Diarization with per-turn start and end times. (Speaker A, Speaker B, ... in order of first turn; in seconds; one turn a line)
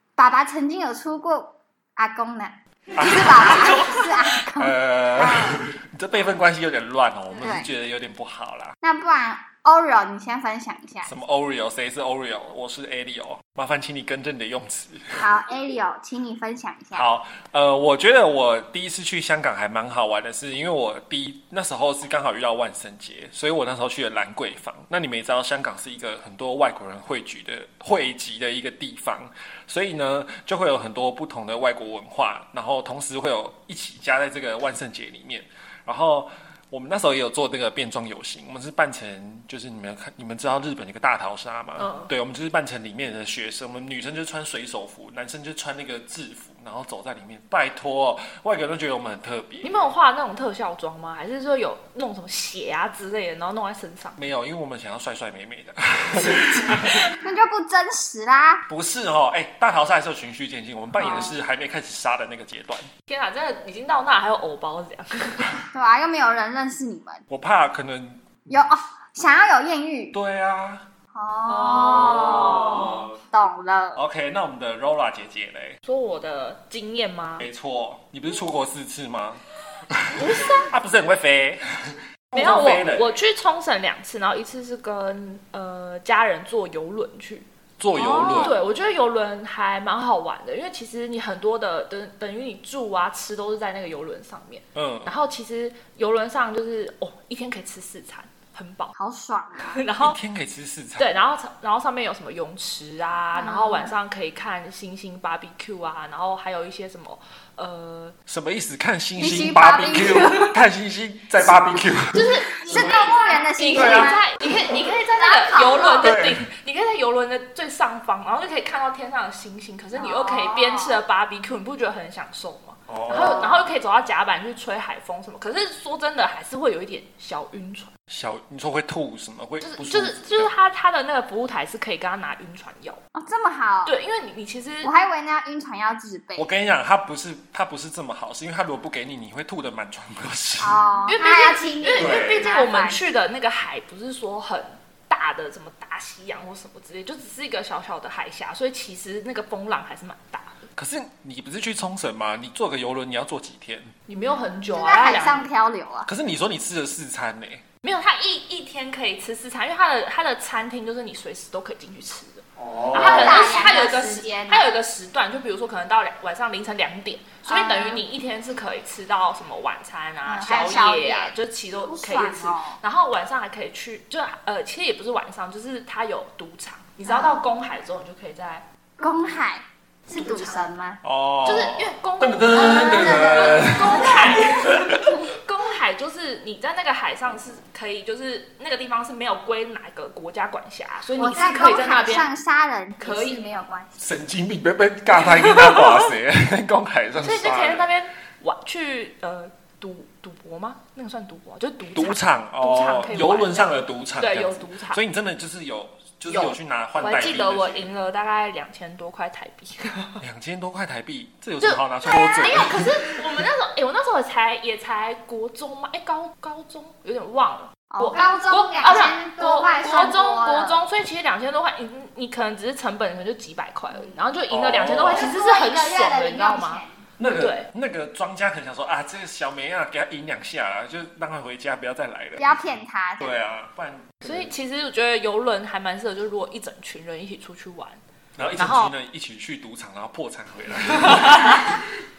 Speaker A: 0.2-5.7
Speaker B: 2.9-8.7
Speaker C: 3.7-4.0
Speaker A: 7.4-7.7
Speaker A: 8.8-11.1
Speaker B: 11.0-15.3
Speaker A: 15.2-17.1
Speaker B: 16.9-49.7
Speaker C: 41.8-42.1
Speaker C: 49.6-54.2
Speaker B: 54.1-57.1
Speaker A: 57.1-58.6
Speaker B: 58.7-62.9
Speaker A: 61.0-61.3
Speaker C: 63.1-65.6
Speaker A: 65.7-67.2
Speaker B: 67.3-68.2
Speaker A: 68.5-70.1
Speaker B: 70.1-70.8
Speaker A: 71.1-74.0
Speaker C: 71.5-72.9
Speaker B: 71.7-73.1
Speaker B: 74.0-75.8
Speaker C: 75.8-77.5
Speaker B: 77.4-83.1
Speaker C: 80.1-80.7
Speaker C: 82.3-87.5
Speaker B: 87.8-88.5
Speaker A: 87.9-88.5
Speaker C: 88.2-98.9
Speaker B: 94.7-95.1
Speaker A: 99.0-99.8
Speaker C: 99.6-100.2
Speaker B: 100.0-101.1
Speaker C: 101.0-108.1
Speaker A: 103.3-103.9
Speaker B: 108.3-113.2
Speaker A: 109.2-110.5
Speaker C: 112.1-127.9
Speaker A: 112.6-114.2
Speaker B: 113.7-114.1
Speaker A: 115.2-116.1
Speaker B: 116.0-116.4
Speaker A: 119.9-121.0
Speaker B: 122.9-123.6
Speaker A: 123.1-123.6
Speaker B: 128.1-130.5
Speaker C: 129.6-133.0
Speaker A: 133.1-133.9
Speaker C: 133.8-134.9
Speaker A: 134.8-136.5
Speaker B: 136.4-140.8
Speaker A: 140.6-143.0
Speaker C: 141.1-150.6
Speaker B: 142.0-142.4
Speaker B: 150.8-153.9
Speaker C: 154.1-155.4
Speaker A: 154.7-156.1
Speaker B: 156.1-157.6
Speaker C: 157.8-178.6
Speaker B: 162.6-163.6
Speaker A: 162.9-164.8
Speaker A: 167.5-168.0
Speaker A: 170.2-172.8
Speaker A: 177.1-177.4
Speaker A: 179.0-181.0
Speaker C: 180.1-180.7
Speaker B: 181.0-185.1
Speaker C: 181.4-192.3
Speaker A: 182.5-184.4
Speaker A: 191.2-193.9
Speaker C: 193.0-193.5
Speaker B: 194.0-197.8
Speaker C: 195.4-195.9
Speaker C: 197.2-205.0
Speaker B: 201.9-207.9
Speaker C: 206.3-210.2
Speaker B: 210.2-213.1
Speaker C: 211.6-226.8
Speaker A: 217.9-220.8
Speaker B: 224.5-225.3
Speaker A: 225.1-226.9
Speaker B: 227.2-234.5
Speaker C: 227.4-227.7
Speaker A: 232.4-233.4
Speaker C: 234.2-238.0
Speaker B: 238.3-241.8
Speaker C: 238.6-238.9
Speaker C: 240.9-241.6